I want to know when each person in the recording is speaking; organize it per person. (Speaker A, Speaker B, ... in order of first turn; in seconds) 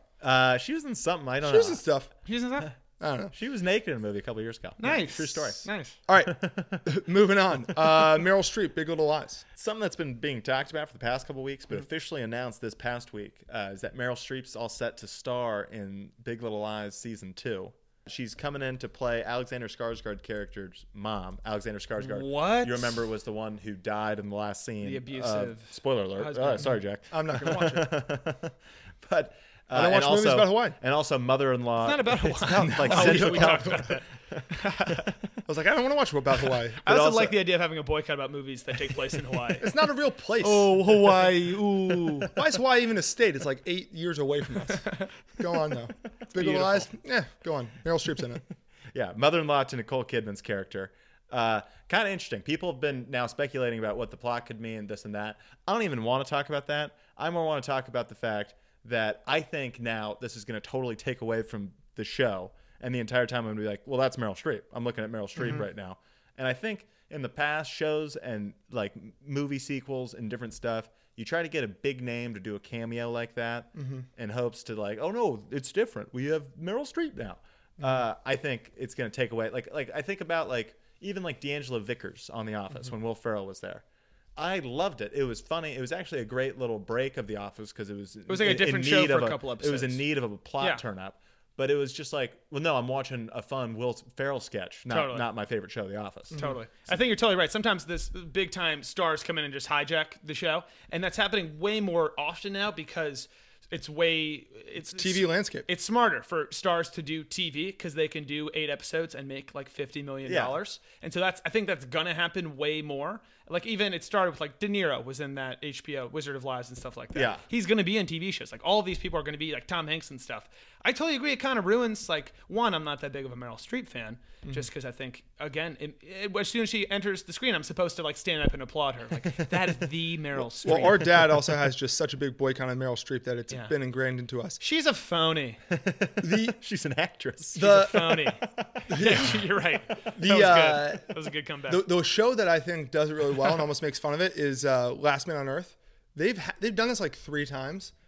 Speaker A: 0.2-1.8, 3.3-5.7, 6.3-6.9, 9.6-34.5, 36.9-37.4, 46.4-46.9, 48.9-83.8, 84.4-96.4, 110.2-110.6, 117.1-117.4, 135.7-139.4
Speaker B: 1.4-2.1, 3.0-3.3, 6.1-9.4, 27.1-27.9, 29.7-30.8, 32.5-33.9, 35.5-36.8, 39.6-40.7, 42.3-44.9, 45.4-48.4, 73.8-74.0, 96.3-96.6, 104.9-105.7, 130.6-134.6, 136.2-136.6, 137.6-138.0, 138.9-139.4, 140.1-141.1, 141.7-147.9
Speaker C: 2.3-2.7, 4.8-6.0, 22.0-23.0, 24.8-26.7, 31.8-35.1, 36.8-39.7, 40.4-42.4, 44.7-45.1, 88.3-90.0, 94.9-95.3, 96.4-131.1, 134.6-135.6, 137.6-141.9